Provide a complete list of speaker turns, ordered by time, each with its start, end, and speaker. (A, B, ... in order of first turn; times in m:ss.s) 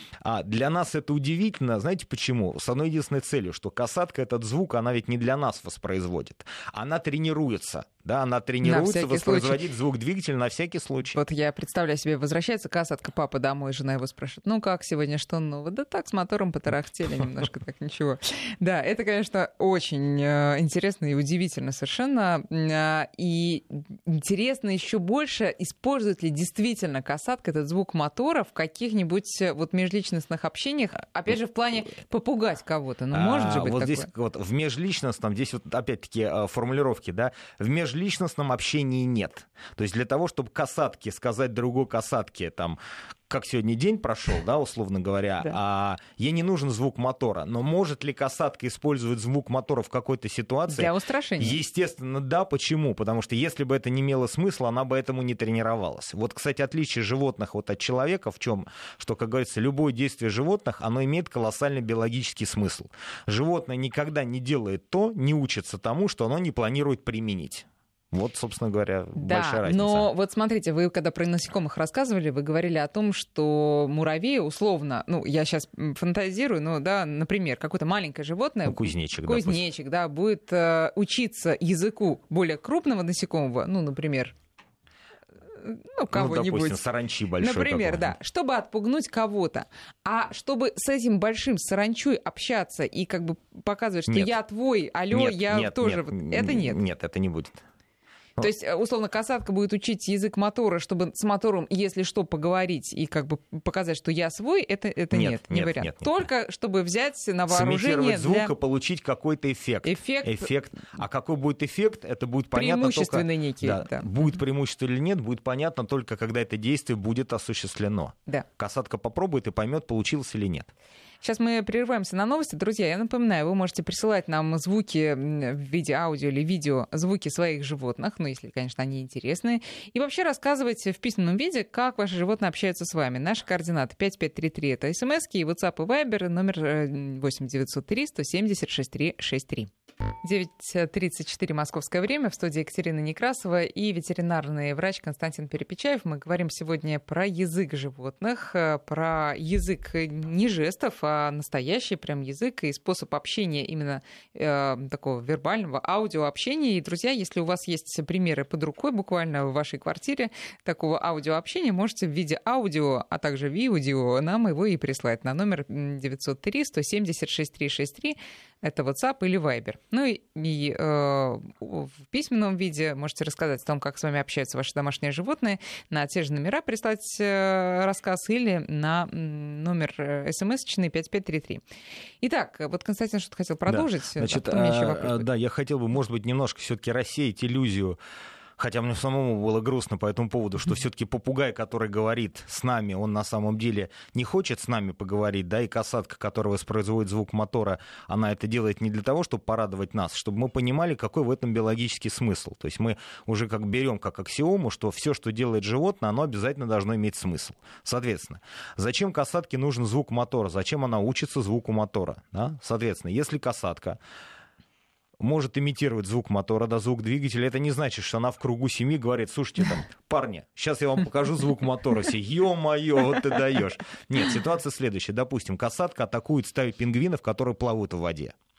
0:00.2-0:11.2 A
0:08.6-0:09.6 B
0:11.1-0:34.1 B
0:33.1-0:42.8 A
0:43.3-1:10.1 A
0:50.7-0:51.6 B
1:09.2-1:24.4 B
1:18.6-1:19.6 A
1:25.5-1:26.8 B
1:26.1-1:28.2 A
1:27.4-1:36.8 B
1:34.1-1:34.3 A
1:35.1-1:37.6 A
1:38.4-1:48.5 B
1:45.1-1:46.2 A
1:47.5-2:00.7 A
1:49.8-1:50.5 B
1:52.5-1:54.1 B
2:01.2-2:19.7 B
2:20.2-3:01.6 B
3:02.2-3:05.3 B
3:03.7-3:08.0 A
3:08.6-3:34.0 A
3:35.2-3:48.4 A